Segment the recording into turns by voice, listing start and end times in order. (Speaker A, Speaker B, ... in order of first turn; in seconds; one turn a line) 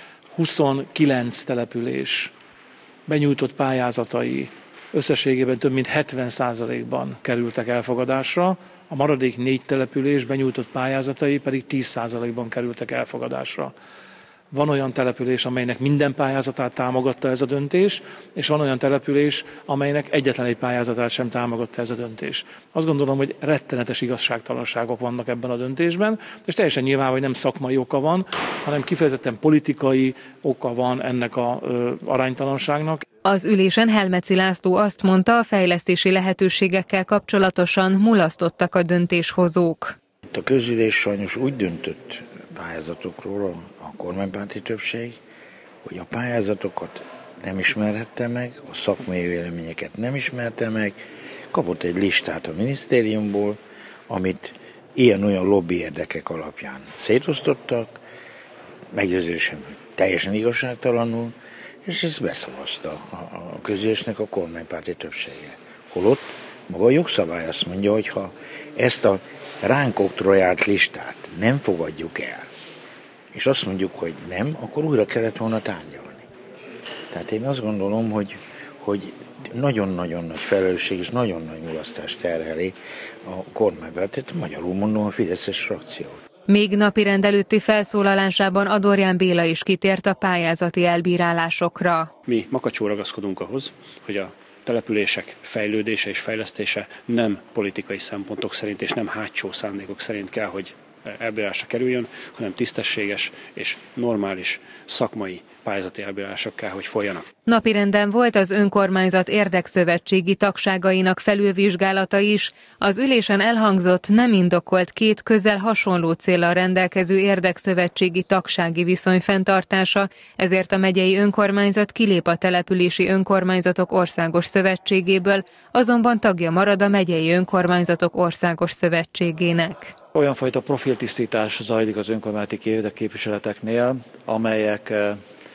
Speaker A: 0.3-2.3
Speaker A: 3.1-13.7
Speaker A: 14.5-33.0
Speaker B: 33.2-40.0
Speaker C: 40.3-45.2
Speaker C: 45.9-51.0
Speaker C: 51.5-53.6
Speaker C: 54.1-58.0
Speaker C: 58.9-61.3
Speaker C: 61.9-72.5
Speaker C: 73.3-76.3
Speaker C: 77.1-86.2
Speaker B: 86.5-92.1
Speaker D: 92.3-107.3
Speaker B: 107.5-129.9
Speaker E: 130.1-135.2